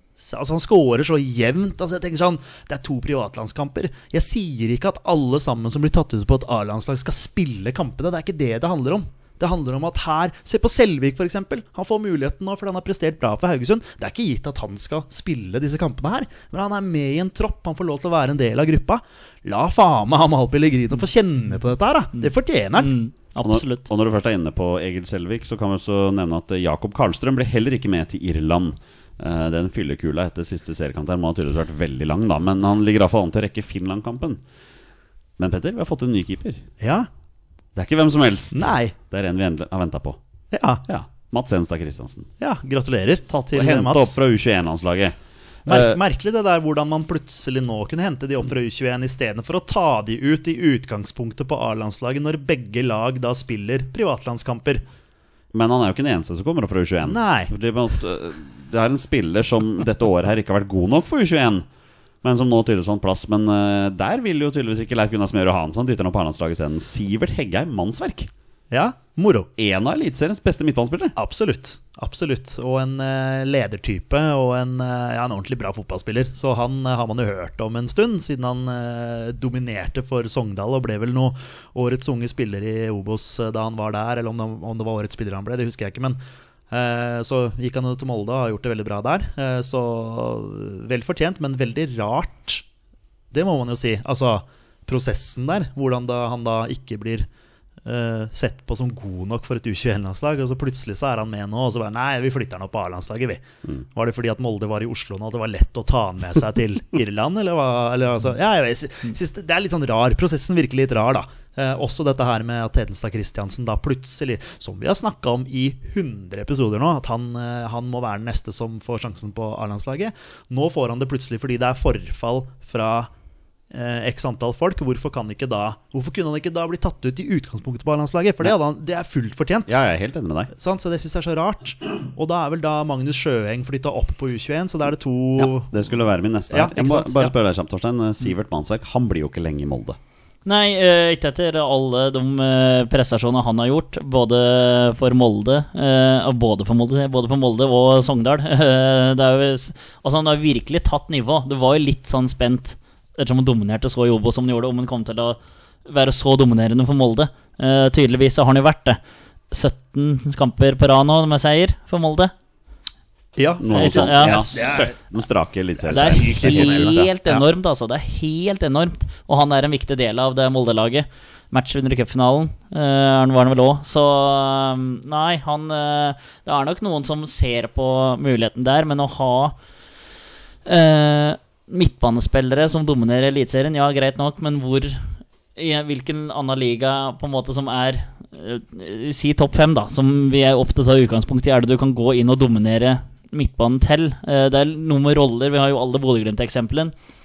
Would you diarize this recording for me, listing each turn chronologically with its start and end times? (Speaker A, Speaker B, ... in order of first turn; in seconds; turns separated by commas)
Speaker A: 0.2-22.9, Speaker B: 22.8-23.9, Speaker C: 23.4-34.4, Speaker C: 35.4-36.6, Speaker A: 36.8-37.1, Speaker C: 37.8-40.2, Speaker A: 38.5-38.9, Speaker A: 40.5-40.8, Speaker C: 40.9-42.3, Speaker A: 42.4-44.2, Speaker C: 43.3-46.0, Speaker A: 45.7-54.8, Speaker C: 55.5-61.7, Speaker A: 57.0-57.5, Speaker C: 62.2-68.3, Speaker A: 68.7-69.5, Speaker C: 69.6-71.1, Speaker A: 71.2-86.2, Speaker A: 86.7-92.6, Speaker A: 93.3-97.3, Speaker A: 97.8-123.1, Speaker A: 123.7-129.8, Speaker C: 129.7-130.5, Speaker A: 130.5-135.7, Speaker C: 135.4-140.0, Speaker A: 136.5-137.3, Speaker B: 140.4-159.0, Speaker B: 159.5-162.3, Speaker A: 163.4-164.9, Speaker C: 163.6-167.1, Speaker B: 163.7-164.6, Speaker A: 165.9-167.4, Speaker B: 165.9-179.6, Speaker B: 180.6-196.9